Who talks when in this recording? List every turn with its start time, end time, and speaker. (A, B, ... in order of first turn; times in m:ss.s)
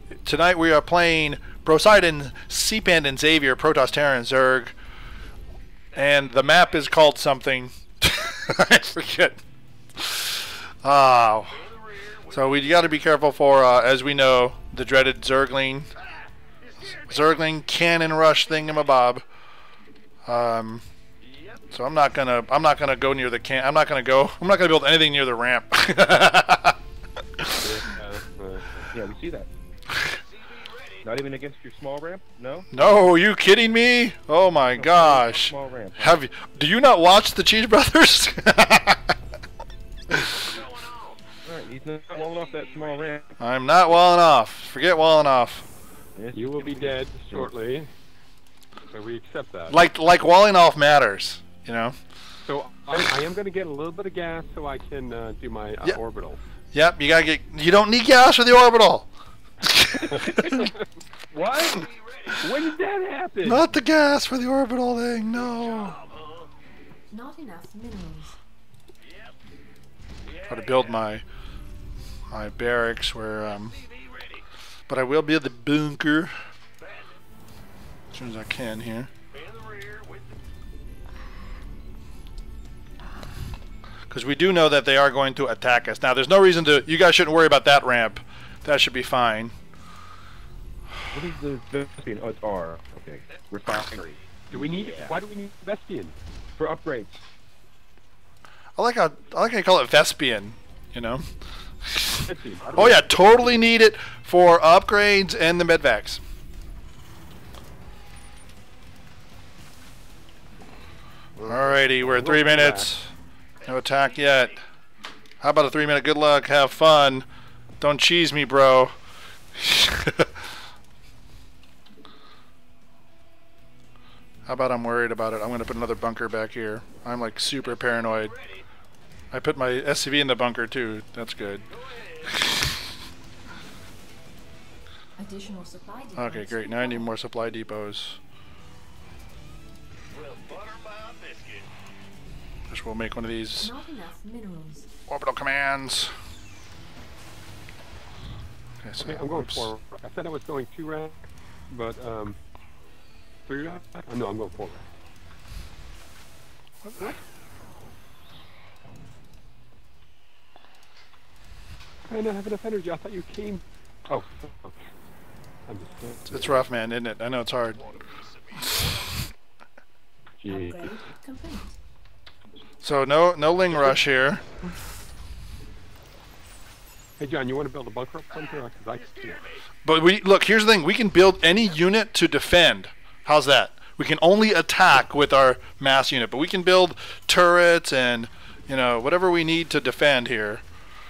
0:00.2-0:04.7 A
0:05.9-0:09.4 A
0:10.0-0:15.9 A
0:16.8-0:19.2 A
0:20.2-0:20.8 A
0:21.7-0:26.8 A
0:27.4-0:27.6 A
0:27.6-0:28.9 B
0:28.9-0:29.5 C
0:31.0-0:32.7 C
0:32.7-0:39.2 A
0:34.8-0:36.2 C
0:40.1-0:40.7 A
0:41.4-0:43.4 C
0:43.4-0:45.7 A
0:46.2-0:47.5 C
0:46.3-0:47.9 B
0:48.9-0:49.8 B
0:49.7-0:52.0 A
0:52.4-0:56.4 B
0:56.7-0:59.1 A
0:59.6-1:00.7 A
1:00.1-1:03.7 B
1:03.4-1:06.0 A
1:07.1-1:08.4 D
1:10.5-1:11.2 A
1:12.3-1:13.8 A
1:14.9-1:16.3 A
1:18.1-1:19.1 A
1:24.1-1:29.5 A
1:31.1-1:35.1 C
1:34.5-1:36.2 B
1:36.6-1:37.2 C
1:38.8-1:41.3 A
1:41.8-1:46.2 A
1:42.3-1:43.0 B
1:51.4-1:54.6 A
1:51.8-1:52.9 B
1:55.4-1:57.3 A
1:57.8-1:59.0 A
1:59.6-2:00.5 A
2:04.5-2:08.4 A
2:09.3-2:11.7 A
2:12.2-2:12.8 A
2:15.2-2:17.1 D
2:16.2-2:18.2 A
2:22.7-2:23.7 A
2:23.6-2:24.9 D
2:25.1-2:26.1 A
2:28.8-2:29.7 A
2:29.0-2:32.4 B
2:33.5-2:34.9 B
2:36.8-2:37.2 A
2:42.1-2:44.8 B
2:45.7-2:46.6 B
2:46.3-2:47.9 A
2:50.4-2:50.9 B
2:50.5-2:51.8 D
2:52.8-2:54.4 A
2:53.7-2:54.0 B
2:57.2-2:59.5 B
2:59.8-3:10.6 A